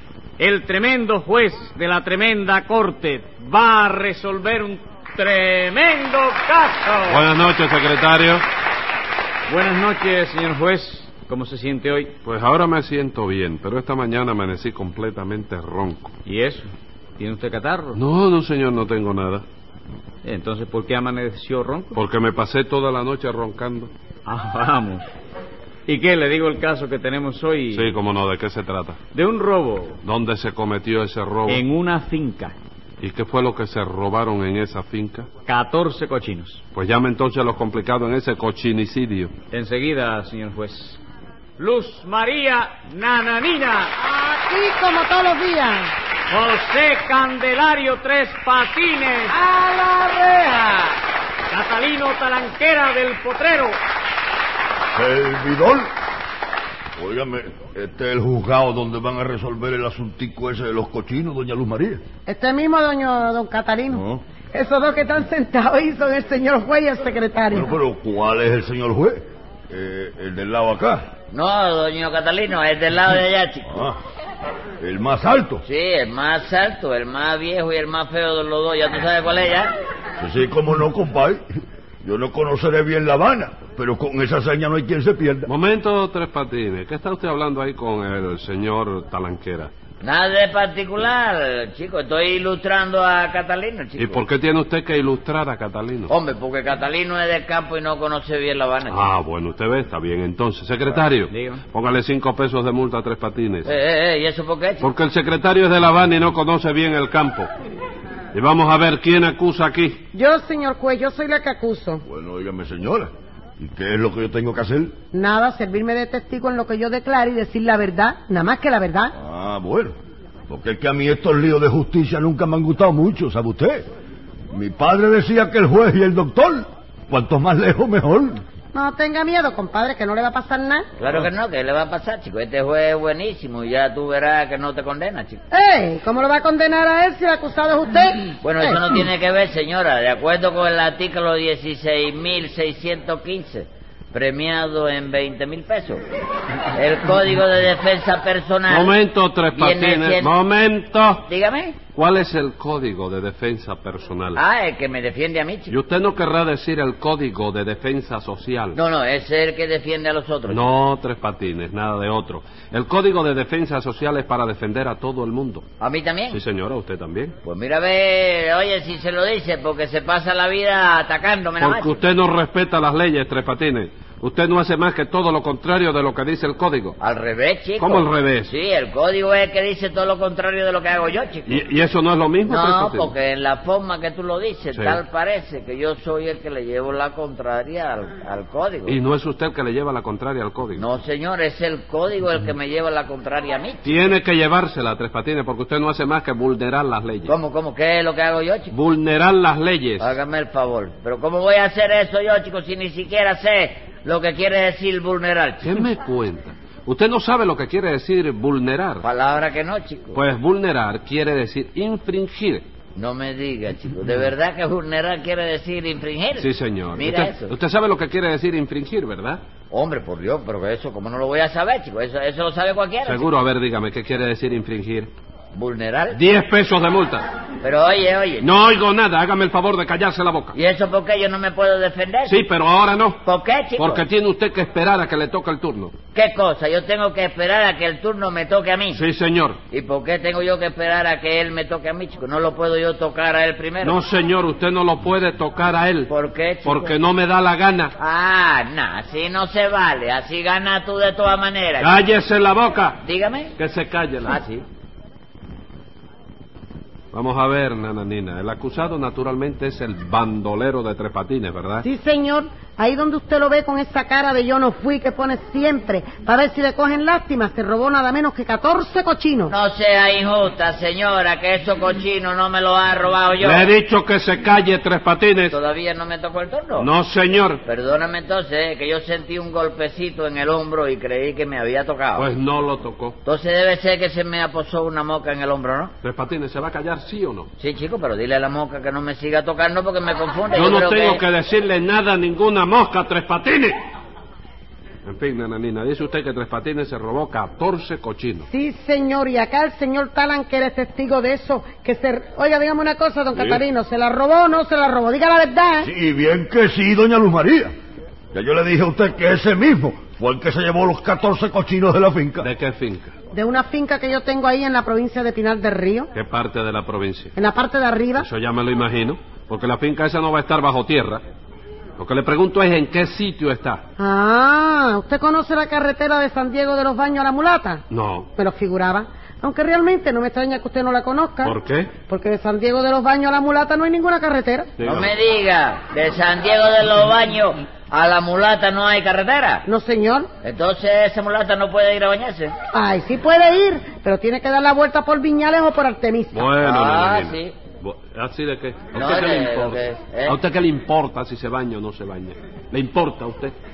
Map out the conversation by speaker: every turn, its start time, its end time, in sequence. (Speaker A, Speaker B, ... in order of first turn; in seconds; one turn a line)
Speaker A: 0.4-7.3
Speaker B: 7.1-8.4
Speaker A: 9.5-12.2
Speaker B: 12.2-16.1
Speaker A: 16.2-18.0
Speaker B: 17.9-19.4
Speaker A: 20.2-22.0
Speaker B: 21.9-23.9
Speaker A: 24.2-25.1
Speaker A: 25.9-28.0
Speaker B: 27.7-29.0
Speaker A: 29.1-30.0
Speaker B: 30.0-31.6
Speaker A: 31.5-32.5
Speaker B: 33.0-35.3
Speaker A: 35.5-36.6
Speaker B: 36.7-39.3
Speaker A: 39.5-41.0
Speaker A: 41.6-44.0
Speaker C: 44.0-45.9
Speaker A: 46.3-49.4
Speaker A: 51.5-53.8
Speaker D: 54.9-55.9
Speaker D: 57.0-62.0
Speaker C: 62.3-67.7
Speaker D: 63.9-64.2
Speaker D: 67.5-71.1
Speaker E: 71.3-73.8
Speaker D: 73.7-74.0
Speaker D: 74.8-75.6
Speaker E: 75.6-79.7
Speaker D: 80.2-81.4
Speaker D: 82.0-85.5
Speaker B: 85.5-89.7
Speaker E: 90.0-94.2
Speaker B: 94.0-96.1
Speaker E: 96.1-99.1
Speaker B: 98.9-103.7
Speaker A: 101.3-101.6
Speaker E: 103.6-104.9
Speaker B: 104.8-107.5
Speaker B: 108.3-110.0
Speaker C: 110.1-112.0
Speaker D: 112.0-114.9
Speaker C: 115.1-119.1
Speaker D: 119.2-119.9
Speaker D: 120.5-123.8
Speaker D: 124.5-128.4
Speaker C: 128.7-130.9
Speaker E: 131.0-135.4
Speaker C: 135.5-138.8
Speaker E: 138.4-146.0
Speaker E: 146.8-149.0
Speaker B: 148.7-151.2
Speaker E: 149.5-150.3
Speaker E: 151.2-151.8
Speaker B: 151.9-154.4
Speaker E: 154.3-155.7
Speaker B: 155.7-158.8
Speaker E: 158.8-160.7
Speaker B: 160.5-165.6
Speaker E: 165.8-166.4
Speaker B: 166.3-167.4
Speaker E: 167.4-172.0
Speaker B: 171.6-177.0
Speaker E: 177.0-181.6
Speaker B: 177.8-178.5
Speaker B: 181.5-183.1
Speaker E: 182.4-189.0
Speaker B: 184.7-185.0
Speaker B: 188.8-190.8
Speaker E: 190.8-194.1
Speaker B: 193.8-197.3
Speaker E: 197.3-198.7
Speaker B: 198.7-200.2
Speaker E: 200.0-205.8
Speaker B: 205.6-209.1
Speaker E: 209.0-210.2
Speaker B: 210.1-212.6
Speaker E: 212.9-217.5
Speaker B: 216.3-219.4
Speaker E: 219.7-223.2
Speaker B: 223.0-225.1
Speaker E: 225.5-226.2
Speaker B: 226.1-227.3
Speaker E: 227.6-228.5
Speaker B: 228.4-230.6
Speaker E: 230.5-232.5
Speaker B: 232.2-233.2
Speaker E: 233.2-234.0
Speaker B: 233.8-235.9
Speaker E: 236.1-239.0
Speaker B: 238.9-239.6
Speaker E: 239.7-244.0
Speaker B: 243.8-246.1
Speaker E: 246.1-246.9
Speaker B: 246.6-247.9
Speaker E: 248.0-251.9
Speaker B: 251.8-253.0
Speaker E: 253.0-253.5
Speaker B: 253.6-254.4
Speaker E: 254.2-254.6
Speaker B: 257.1-261.9
Speaker C: 261.8-269.5
Speaker E: 269.5-273.7
Speaker B: 273.4-275.6
Speaker E: 275.5-276.9
Speaker B: 276.8-277.6
Speaker E: 277.6-282.3
Speaker B: 282.1-283.2
Speaker E: 283.2-285.9
Speaker B: 286.0-287.5
Speaker E: 287.6-291.2
Speaker B: 290.5-293.8
Speaker B: 295.1-298.4
Speaker C: 298.4-305.9
Speaker B: 303.3-303.6
Speaker D: 305.8-307.7
Speaker D: 308.3-312.5
Speaker B: 312.4-313.1
Speaker C: 313.3-316.1
Speaker B: 316.1-317.3
Speaker C: 317.4-318.3
Speaker B: 318.1-321.2
Speaker B: 322.0-323.8
Speaker C: 324.0-327.8
Speaker B: 327.9-328.3
Speaker C: 328.4-334.7
Speaker B: 331.4-331.9
Speaker B: 334.8-335.1
Speaker E: 334.8-339.6
Speaker C: 339.6-340.3
Speaker E: 340.4-342.5
Speaker C: 342.7-346.5
Speaker B: 346.3-353.6
Speaker E: 346.6-347.6
Speaker E: 348.9-350.4